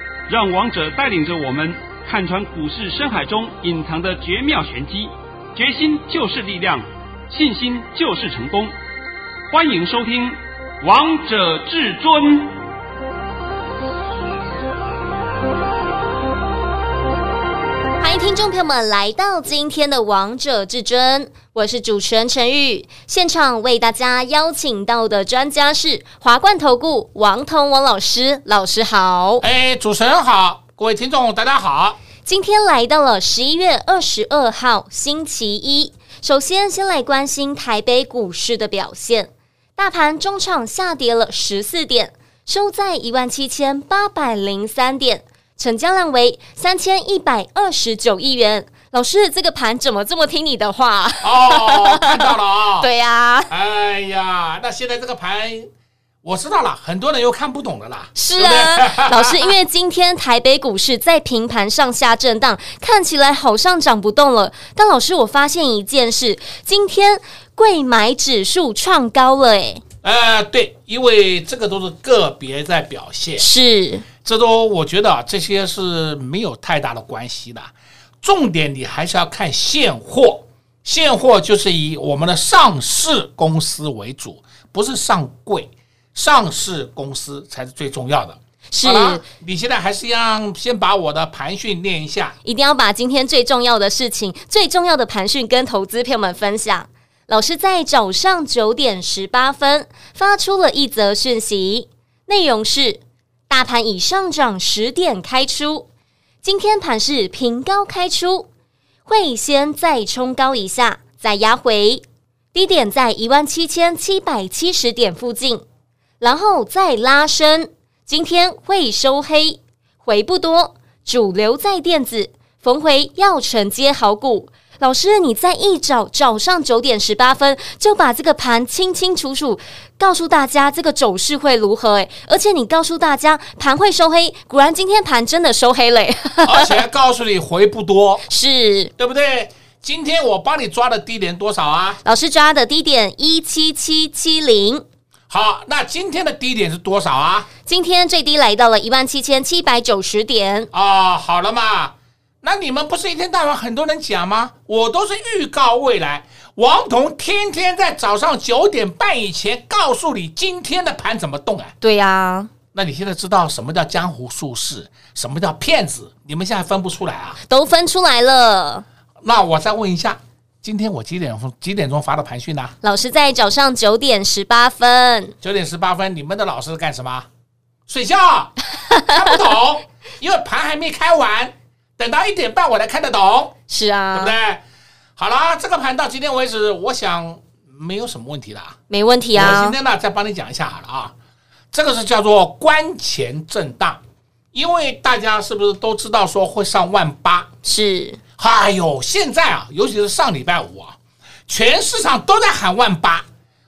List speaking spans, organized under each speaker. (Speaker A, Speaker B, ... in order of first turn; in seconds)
Speaker A: 0.3-8.7, 9.5-12.6
Speaker B: 18.0-29.4, 32.2-53.5, 58.1-69.8, 73.4-74.0, 88.7-89.2, 92.4-105.9, 106.4-108.5, 109.0-115.6, 116.2-136.8, 138.3-138.9, 142.0-144.8, 147.7-150.7, 161.8-162.5, 167.5-168.8, 172.8-175.3, 183.7-184.3, 188.9-189.7, 197.6-198.2
Speaker C: 29.4-32.0, 51.2-52.9, 53.5-55.7, 56.2-59.5, 70.0-73.5, 74.2-92.4, 136.4-138.2, 139.0-142.0, 145.3-147.5, 150.7-161.7, 162.7-167.4, 169.2-172.7, 175.4-177.3, 177.9-183.6, 184.1-184.6, 185.2-188.8, 189.3-191.1, 191.7-194.0, 194.5-197.5, 198.4-201.0, 201.5-203.2